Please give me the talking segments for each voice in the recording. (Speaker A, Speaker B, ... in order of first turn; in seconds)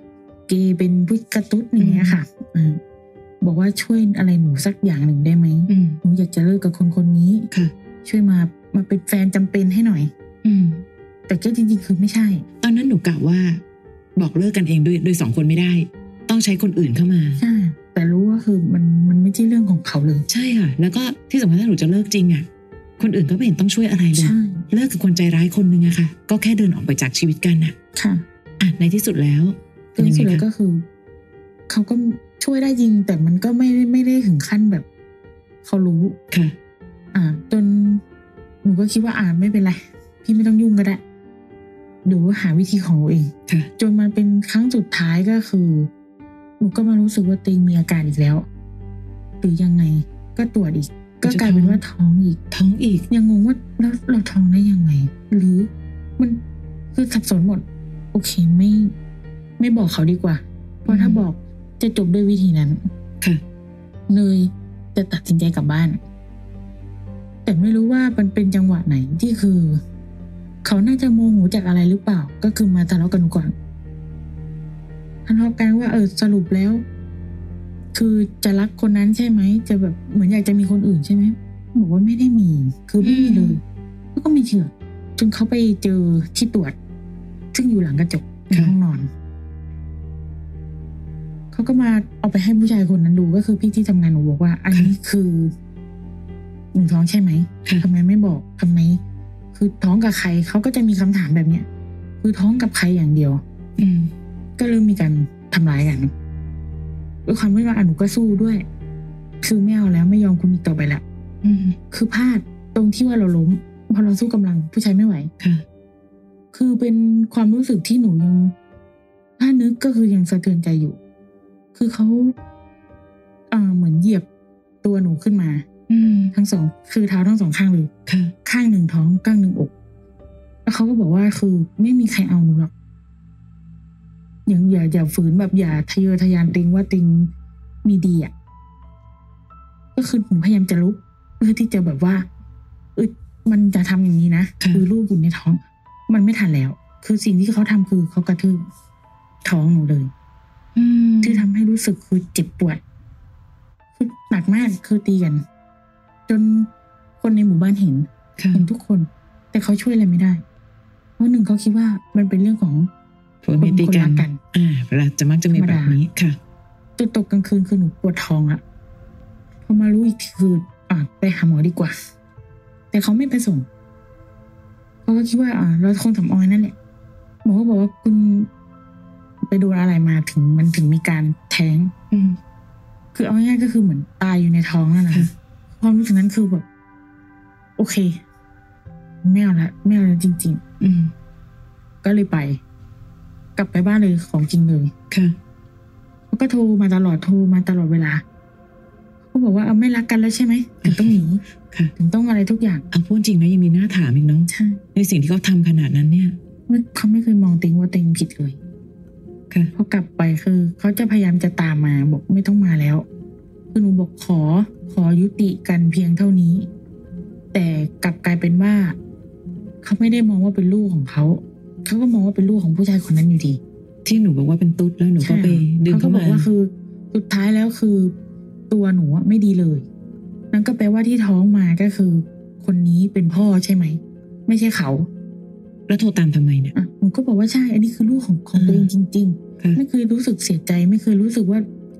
Speaker A: 0.5-2.8, 3.4-7.5, 8.0-10.1, 11.3-12.4, 17.4-20.2, 24.1-24.6, 27.9-28.2, 30.0-30.9, 31.7-34.9, 35.6-36.2, 37.1-38.0, 38.6-41.0, 42.0-45.9, 46.6-48.5, 49.4-52.4, 53.1-56.4, 56.9-58.9, 59.6-62.9, 64.1-66.0, 67.4-69.8, 70.6-73.5, 75.2-76.8, 77.9-83.6, 84.1-86.8, 87.5-89.1, 91.5-95.5, 96.7-99.0, 99.5-101.7, 102.2-103.4, 104.6-106.1, 107.2-108.6, 109.4-111.0, 111.9-115.3, 116.5-118.5, 119.4-121.0, 121.7-122.3, 123.5-124.2, 124.8-125.7, 126.3-127.9, 128.4-129.7, 130.6-132.7, 134.4-137.3, 137.8-138.3, 139.9-142.3, 142.9-148.7, 149.4-150.1, 151.2-152.8, 153.9-155.4, 156.3-156.7, 157.2-160.4, 161.2-162.9, 163.6-164.4, 165.5-166.0, 167.0-168.6, 169.6-171.9, 172.9-173.7, 175.0-176.8, 177.4-178.5, 179.5-181.9, 183.1-186.6, 187.8-188.2, 189.2-190.6, 192.0-192.6, 193.6-194.9, 196.3-198.2, 199.3-201.4, 201.9-202.8, 204.5-204.8, 206.7-208.6, 209.7-213.1, 213.7-216.7, 217.5-219.0, 219.8-223.6, 225.2-228.1, 228.7-229.8, 230.5-235.1, 236.7-241.7
Speaker B: 1.8-2.2, 5.7-6.0, 10.4-10.8, 12.6-13.6, 14.2-17.4, 20.3-22.5, 23.0-27.7, 28.6-30.4, 51.2-51.8, 52.5-53.1, 60.9-61.2, 83.0-83.6, 88.5-88.8, 103.8-104.1, 111.4-111.8, 125.9-126.3, 128.1-128.3, 150.8-151.4, 158.4-158.7, 163.4-166.4, 182.1-182.4, 190.8-191.1, 195.1-195.4, 200.8-201.2, 202.9-206.3, 224.0-226.5, 235.9-236.7, 238.5-238.9